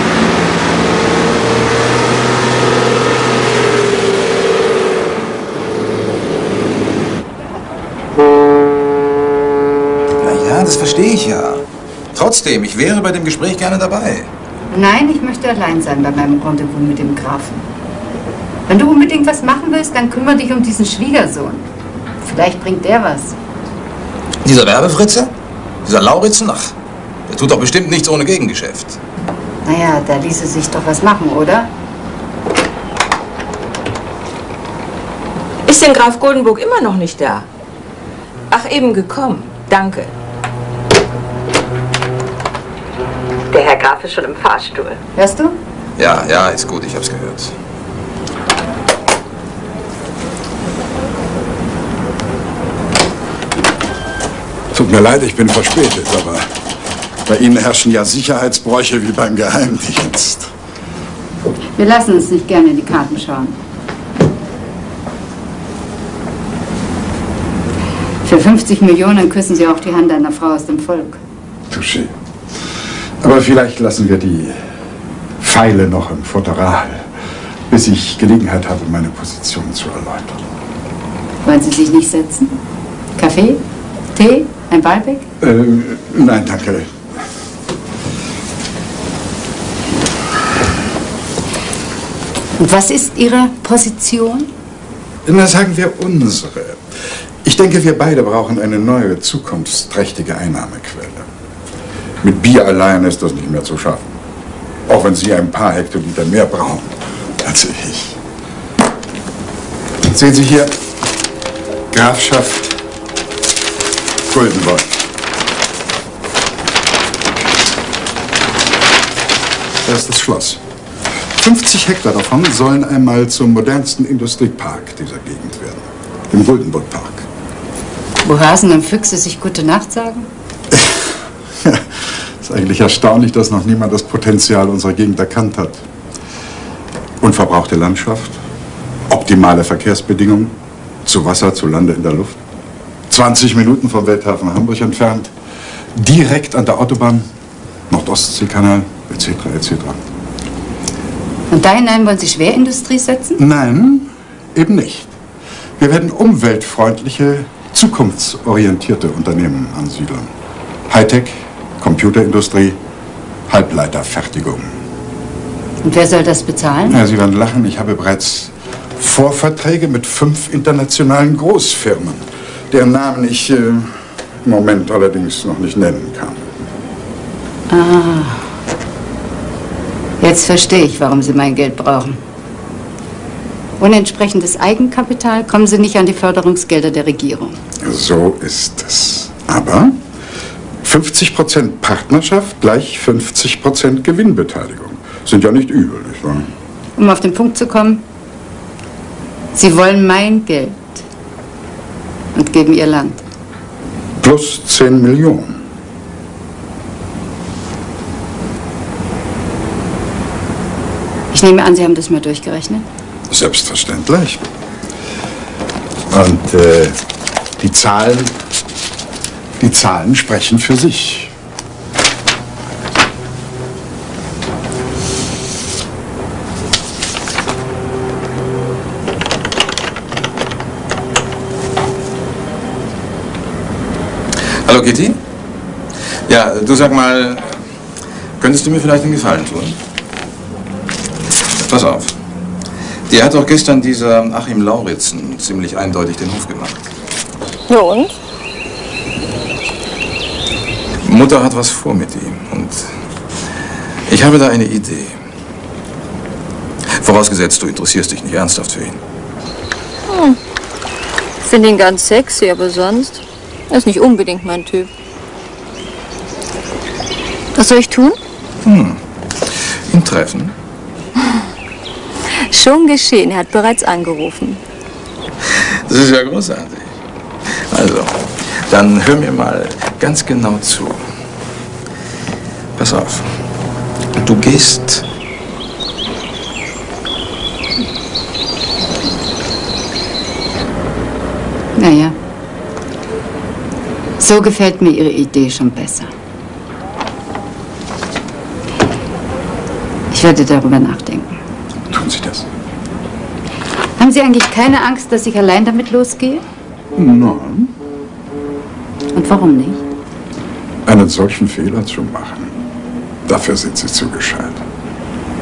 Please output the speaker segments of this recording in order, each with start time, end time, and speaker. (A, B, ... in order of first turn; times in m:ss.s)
0:10.2-0:11.6 A
0:12.1-0:14.3 A
0:14.7-0:17.6 B
0:18.7-0:21.7 B
0:22.2-0:23.4 B
0:24.4-0:25.3 A
0:25.8-0:26.7 A
0:27.3-0:29.0 A
0:29.6-0:31.7 B
0:35.7-0:37.4 C
0:38.5-0:40.0 C
0:45.2-0:45.6 B
0:46.0-0:47.5 A
0:54.7-0:56.5 D
0:57.3-1:00.5 D
1:01.8-1:03.6 B
1:08.2-1:11.2 B
1:11.7-1:12.1 D
1:13.2-1:14.6 D
1:15.4-1:17.1 D
1:17.7-1:20.4 D
1:21.4-1:22.6 B
1:23.2-1:23.6 B
1:24.2-1:25.3 B
1:25.4-1:26.9 D
1:32.6-1:34.5 B
1:35.2-1:41.3 D
1:42.2-1:44.1 D
1:44.9-1:48.2 D
1:50.0-1:50.8 D
1:51.9-1:52.8 D
1:54.3-1:55.0 D
1:59.8-2:00.6 D
2:01.4-2:07.3 D
2:08.2-2:10.3 B
2:10.7-2:11.1 D
2:11.6-2:15.8 D
2:17.2-2:18.4 D
2:19.1-2:20.5 D
2:21.0-2:22.4 D
2:23.1-2:25.3 D
2:26.0-2:27.3 D
2:27.9-2:30.0 D
2:31.5-2:33.4 B
2:33.4-2:35.1 D
2:35.8-2:40.3 D
2:40.9-2:42.8 D
2:43.5-2:44.8 D
2:45.8-2:47.0 B
2:46.9-2:56.4 D
2:57.7-2:58.4 B
3:00.2-3:02.2 B
3:03.8-3:07.6 B
3:07.8-3:10.0 D
3:10.8-3:16.5 D
3:17.0-3:18.0 B
3:19.5-3:21.0 B
3:22.4-3:23.2 B
3:24.2-3:25.6 D
3:31.3-3:32.9 B
3:33.3-3:34.4 D
3:36.1-3:37.0 D
3:37.6-3:38.4 D
3:39.6-3:41.3 D
3:54.6-3:55.2 A
3:56.3-3:57.6 A
3:58.4-3:59.8 A
4:01.6-4:02.2 A
4:03.1-4:06.8 A
4:07.7-4:08.1 E
4:11.0-4:12.9 A
4:14.1-4:15.2 A
4:17.0-4:19.0 A
4:20.1-4:20.4 E
4:21.4-4:24.9 E
4:27.6-4:28.2 E
4:28.6-4:30.6 A
4:32.5-4:34.6 E
4:35.5-4:36.9 A
4:37.5-4:41.0 A
4:42.8-4:43.3 A
4:44.2-4:45.0 A
4:51.8-4:52.2 B
4:54.2-4:56.1 B
5:00.1-5:01.4 B
5:01.9-5:02.5 D
5:04.0-5:06.4 B
5:07.0-5:07.7 D
5:09.1-5:09.8 B
5:10.9-5:12.6 D
5:13.2-5:14.6 D